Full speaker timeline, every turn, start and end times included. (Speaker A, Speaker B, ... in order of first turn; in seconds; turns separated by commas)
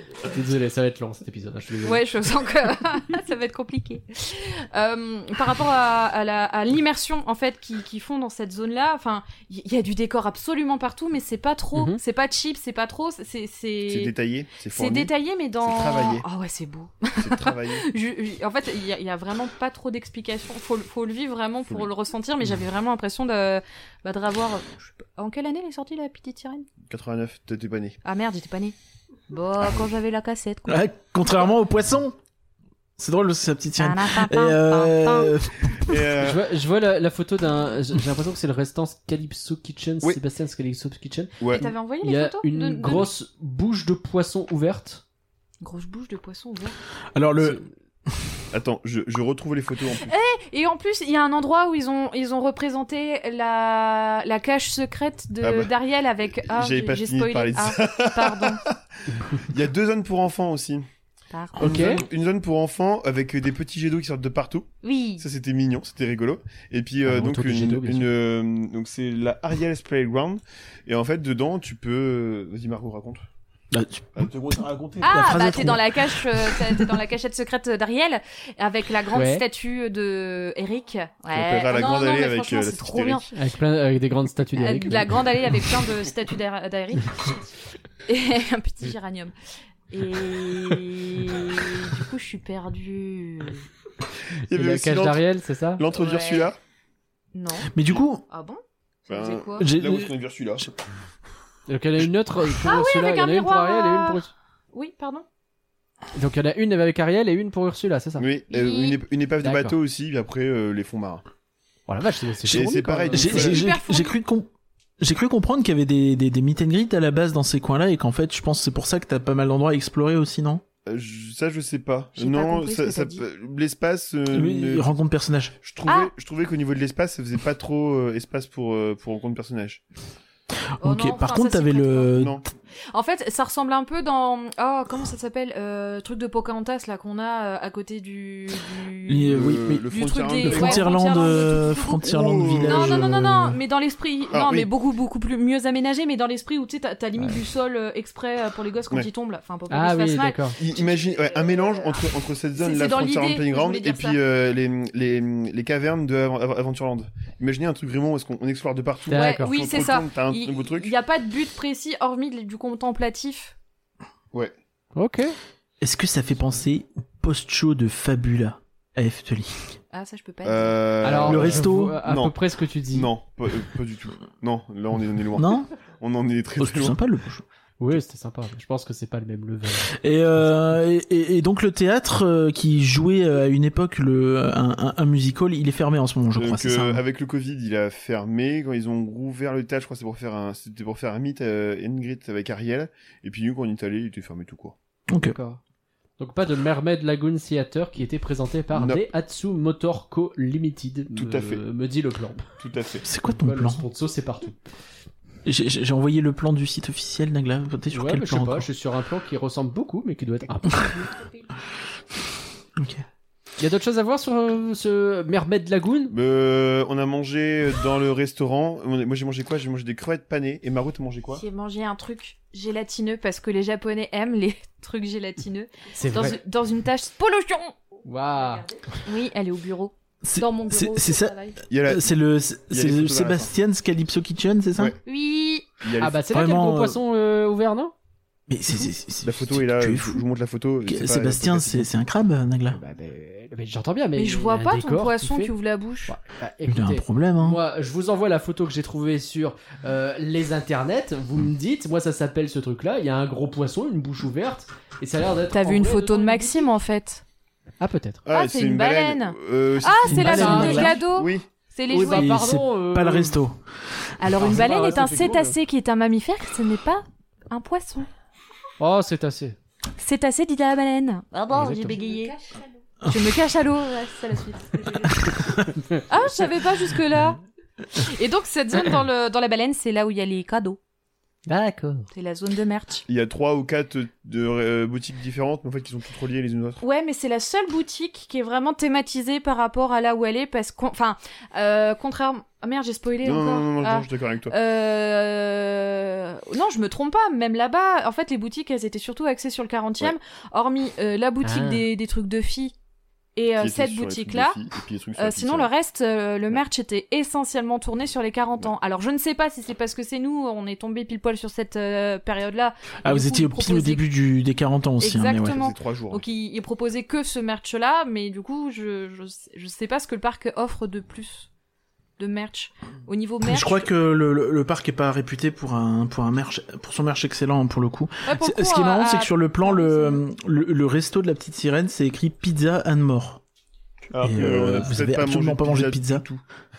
Speaker A: 0.2-2.0, Speaker B: 1.8-14.1, Speaker C: 13.9-15.1, Speaker B: 14.7-26.7, Speaker C: 15.6-16.2, Speaker C: 17.2-17.9, Speaker C: 26.9-28.0, Speaker B: 28.0-28.8, Speaker B: 29.3-30.8, Speaker D: 30.7-32.2, Speaker D: 33.0-36.1, Speaker B: 33.8-35.4, Speaker C: 35.8-36.5, Speaker A: 36.2-45.0, Speaker C: 41.4-41.7, Speaker B: 41.5-43.1, Speaker B: 45.6-46.8, Speaker D: 47.1-48.2, Speaker C: 48.5-50.1, Speaker B: 50.0-58.6, Speaker C: 55.4-55.7, Speaker C: 56.4-58.8, Speaker C: 59.3-60.9, Speaker B: 61.3-61.7, Speaker A: 61.6-62.0, Speaker C: 61.6-64.7, Speaker B: 64.8-65.2, Speaker C: 65.2-73.2, Speaker A: 67.0-68.1, Speaker D: 73.7-74.3, Speaker C: 74.2-75.7, Speaker D: 75.0-76.9, Speaker B: 75.0-83.3, Speaker A: 79.1-79.4, Speaker C: 81.3-83.2, Speaker A: 83.3-85.2, Speaker B: 84.6-87.4, Speaker B: 88.1-89.3, Speaker B: 89.9-93.7, Speaker C: 94.4-95.2, Speaker A: 94.5-95.8, Speaker C: 95.8-96.6, Speaker B: 95.9-96.5, Speaker B: 97.3-99.7, Speaker D: 97.7-98.2, Speaker C: 99.1-100.7, Speaker D: 99.6-100.1, Speaker A: 101.7-104.3, Speaker B: 102.6-105.3, Speaker A: 106.2-108.2, Speaker C: 108.2-111.2, Speaker B: 108.5-109.0, Speaker A: 109.4-109.8, Speaker A: 111.9-113.5, Speaker C: 112.5-113.6, Speaker D: 112.5-114.5, Speaker B: 113.2-114.1, Speaker D: 115.0-120.6, Speaker C: 120.9-124.9, Speaker B: 122.2-123.2, Speaker D: 124.3-125.5, Speaker C: 125.6-129.8, Speaker B: 125.9-126.1, Speaker D: 130.8-132.4, Speaker B: 130.8-132.1, Speaker C: 132.1-132.4, Speaker B: 132.9-154.2, Speaker D: 139.1-139.9, Speaker C: 139.3-143.3, Speaker D: 140.4-143.6, Speaker C: 144.3-144.7, Speaker A: 149.7-150.6, Speaker C: 150.6-160.9, Speaker A: 159.1-159.5, Speaker B: 159.1-163.6, Speaker A: 164.9-165.4, Speaker D: 165.8-169.7, Speaker B: 169.9-171.2, Speaker C: 170.4-172.4, Speaker A: 171.0-173.1, Speaker D: 171.2-172.0, Speaker C: 172.9-177.0, Speaker D: 175.4-175.7, Speaker D: 176.6-177.4, Speaker A: 177.8-180.4, Speaker D: 179.9-187.0, Speaker C: 186.3-194.8, Speaker D: 195.1-195.4, Speaker A: 195.2-195.6, Speaker A: 196.2-202.4, Speaker C: 198.7-199.1, Speaker C: 201.2-201.6, Speaker C: 202.6-203.1, Speaker D: 203.0-203.8, Speaker A: 203.2-204.6, Speaker D: 205.4-208.7, Speaker A: 207.9-211.1, Speaker B: 211.0-211.3, Speaker D: 212.8-213.0, Speaker A: 213.6-216.1, Speaker C: 216.1-221.4, Speaker B: 221.3-227.8, Speaker A: 225.9-226.4, Speaker A: 228.1-228.8, Speaker B: 228.4-231.6, Speaker D: 230.2-234.9, Speaker C: 231.7-232.1, Speaker C: 232.7-233.5, Speaker B: 235.1-235.7, Speaker C: 235.8-236.2, Speaker A: 236.0-237.9, Speaker D: 236.3-237.0, Speaker D: 238.5-240.2, Speaker C: 239.2-241.9, Speaker D: 240.9-242.8, Speaker A: 242.7-245.5, Speaker B: 244.2-246.2, Speaker A: 246.1-256.7, Speaker D: 246.7-247.6, Speaker B: 255.5-257.2, Speaker A: 257.8-258.2, Speaker C: 258.3-261.4, Speaker B: 258.3-262.3, Speaker D: 260.1-261.0, Speaker A: 260.3-260.9, Speaker D: 261.9-263.6, Speaker A: 261.9-263.4, Speaker B: 264.2-268.1, Speaker D: 264.3-264.6, Speaker A: 264.4-265.6, Speaker A: 268.8-269.6, Speaker B: 270.0-275.3, Speaker A: 271.5-272.2, Speaker D: 275.2-275.7, Speaker B: 276.0-277.4, Speaker B: 277.9-280.8, Speaker A: 281.5-282.1, Speaker B: 282.1-283.0, Speaker C: 283.1-286.8, Speaker B: 286.8-302.7, Speaker C: 293.2-294.5, Speaker A: 301.4-301.9, Speaker B: 303.4-304.6, Speaker C: 303.6-305.7, Speaker B: 305.2-314.0, Speaker D: 313.0-315.6, Speaker B: 315.0-321.5, Speaker C: 315.4-316.3, Speaker B: 322.2-323.9, Speaker D: 323.4-333.4, Speaker B: 328.2-330.2, Speaker C: 334.1-336.4, Speaker D: 334.2-336.2